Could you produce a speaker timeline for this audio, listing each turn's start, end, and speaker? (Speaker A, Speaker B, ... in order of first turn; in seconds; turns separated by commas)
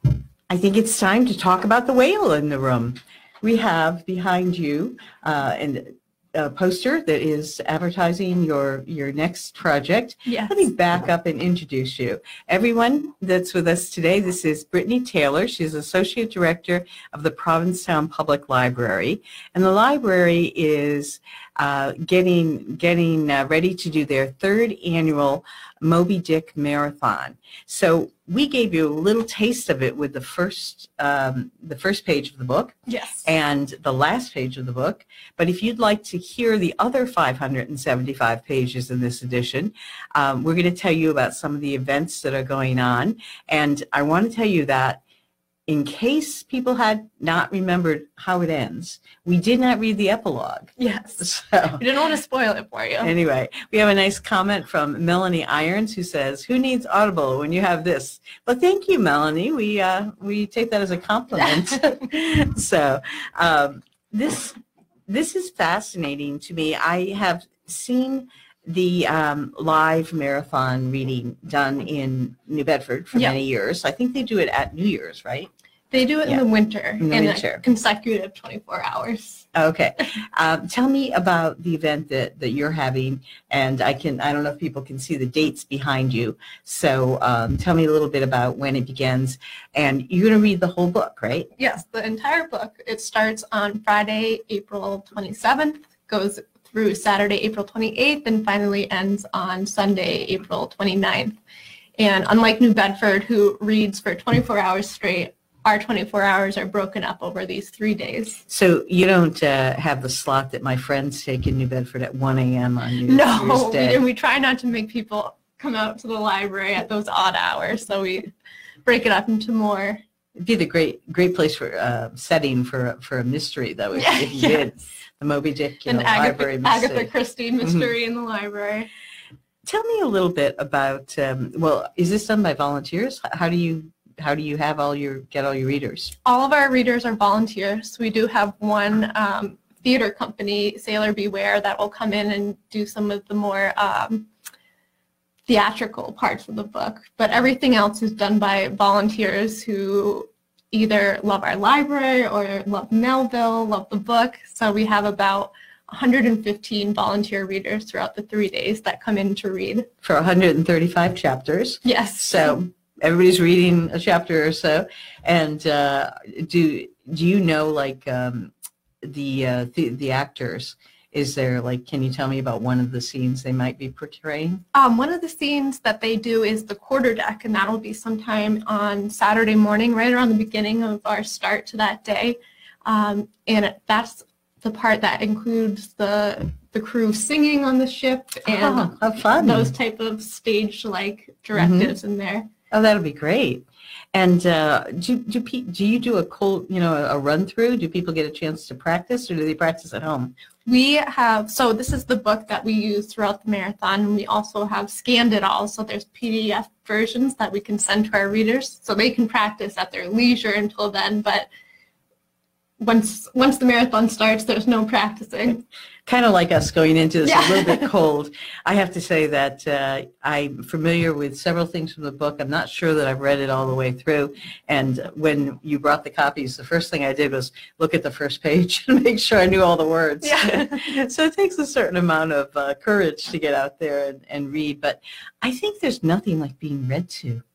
Speaker A: 0.5-45.0, Speaker B: 10.3-10.7, Speaker B: 32.9-33.3, Speaker A: 45.7-51.8, Speaker B: 50.8-51.2, Speaker B: 51.8-53.1, Speaker A: 53.0-75.5, Speaker B: 75.9-79.5, Speaker A: 77.0-77.6, Speaker A: 79.5-91.5, Speaker B: 91.6-101.4, Speaker B: 102.0-108.4, Speaker A: 108.5-114.0, Speaker B: 113.1-118.3, Speaker B: 118.9-120.0, Speaker A: 120.4-127.1, Speaker B: 124.0-124.8, Speaker B: 125.9-128.9, Speaker A: 127.6-127.9, Speaker A: 129.7-136.2, Speaker B: 136.2-144.3, Speaker B: 145.5-159.9, Speaker A: 160.0-168.5, Speaker B: 161.8-162.6, Speaker A: 169.0-174.6, Speaker B: 174.7-192.5, Speaker A: 188.5-189.7, Speaker A: 191.6-191.9, Speaker A: 192.7-200.3, Speaker B: 200.7-211.5, Speaker B: 212.8-215.6, Speaker A: 216.1-237.4, Speaker B: 217.2-217.9, Speaker B: 230.2-230.9